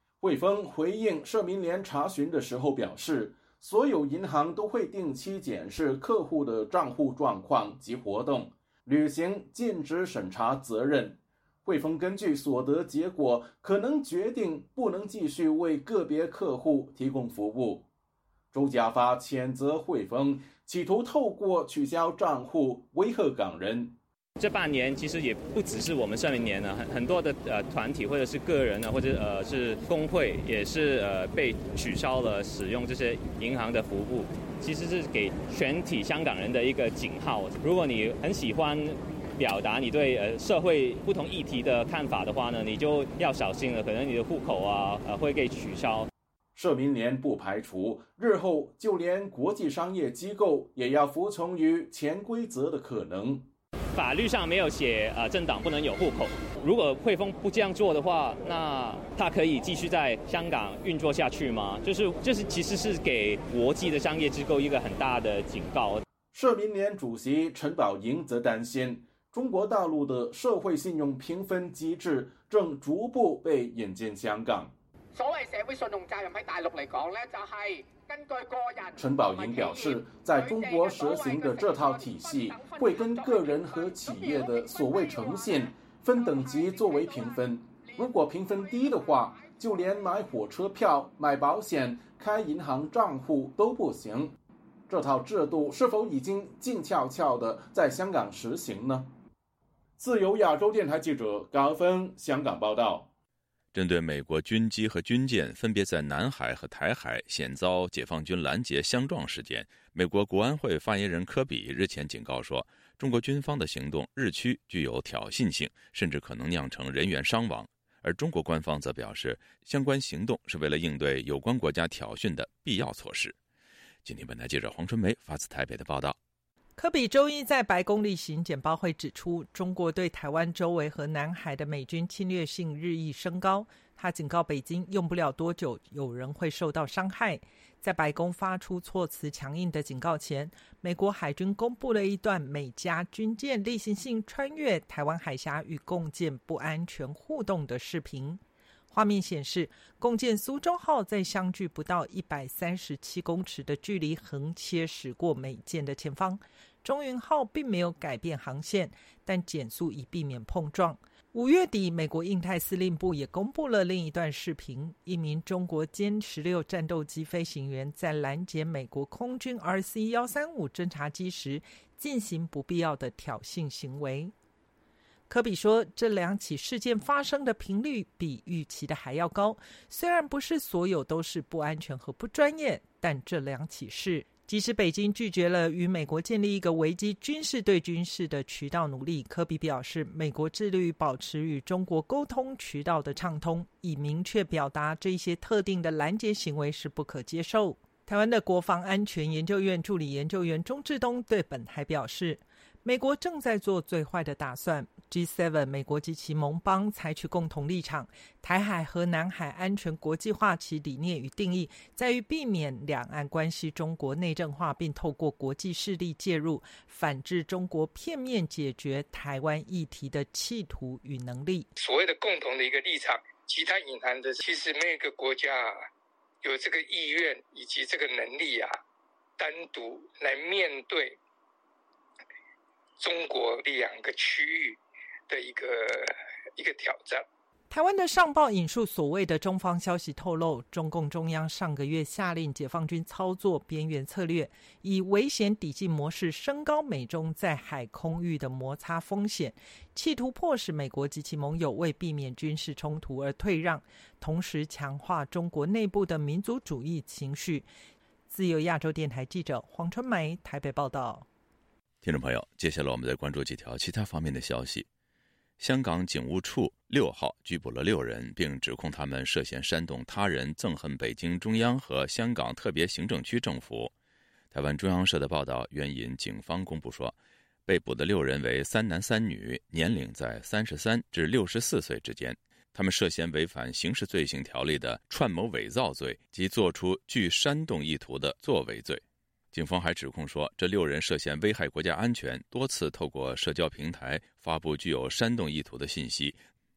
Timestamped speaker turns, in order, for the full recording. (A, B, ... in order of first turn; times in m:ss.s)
0:00.2-0:17.9 A
0:18.5-0:23.9 A
0:24.4-0:46.1 B
0:46.5-0:53.5 A
0:53.9-1:06.0 B
1:06.3-1:14.7 A
1:15.1-1:30.1 C
1:19.0-1:34.3 A
1:34.9-1:39.1 A
1:40.0-1:43.1 A
1:43.7-2:03.4 D
2:04.0-2:06.2 D
2:06.8-2:54.3 E
2:55.3-3:41.7 E
3:41.8-3:45.9 F
3:46.4-3:48.8 F
3:49.4-3:51.2 F
3:53.0-3:57.2 F
3:57.7-4:17.7 E
4:18.3-4:21.3 E
4:22.0-4:24.8 D
4:25.6-4:33.9 D
4:34.5-4:37.1 D
4:37.6-4:56.4 D